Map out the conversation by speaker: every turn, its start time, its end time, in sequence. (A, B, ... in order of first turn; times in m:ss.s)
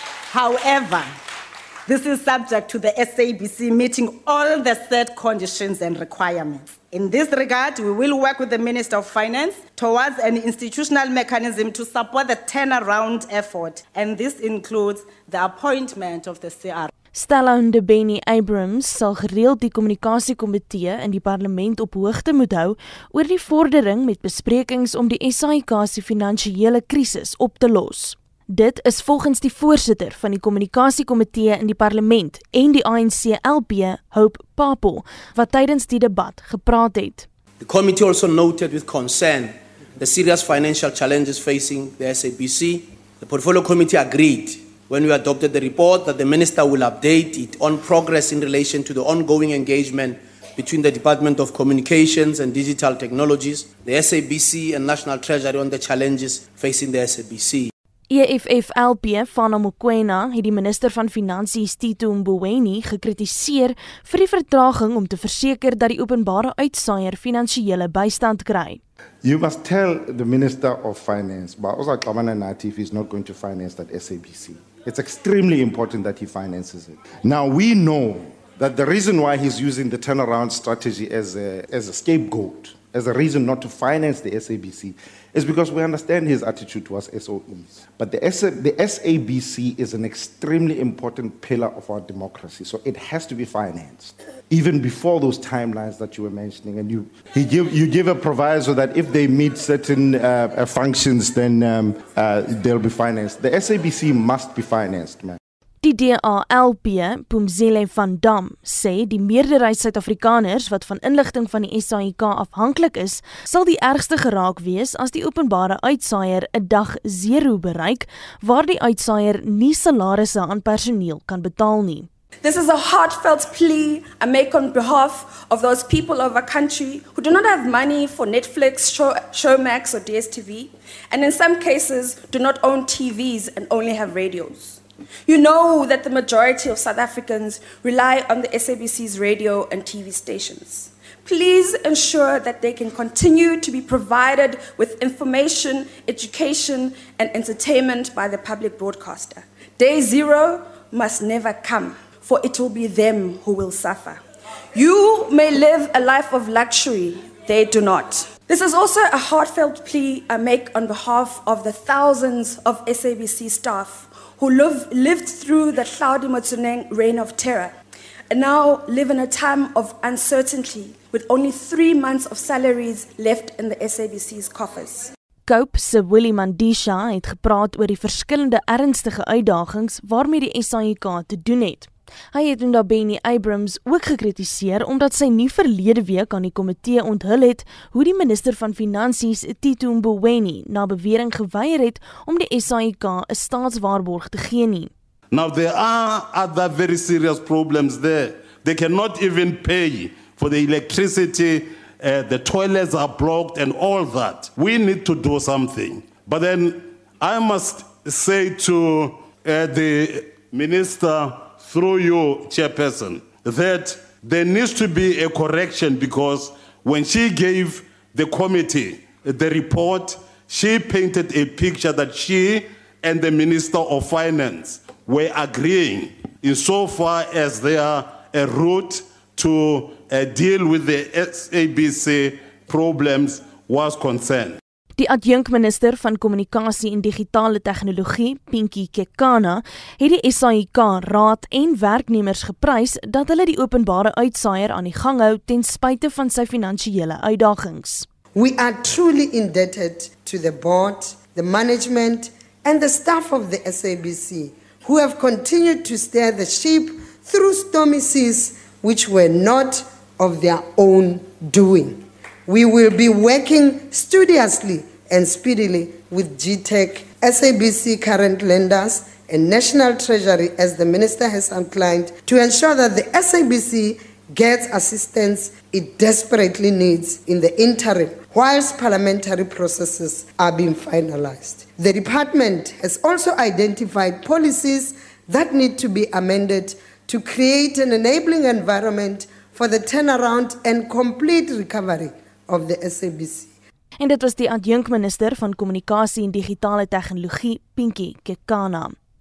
0:00.3-0:01.1 A
0:01.9-0:16.9 A
0:17.1-0:37.3 B
0:37.6-0:57.7 C
0:58.1-1:08.8 B
1:09.2-1:45.4 D
1:45.8-2:02.1 B
2:02.4-2:34.2 E
2:34.8-2:47.7 E
2:48.3-2:55.1 E
2:55.5-3:14.9 B
3:15.3-3:54.6 F
3:55.0-4:08.1 B
4:08.4-4:53.5 G
4:54.0-4:59.0 B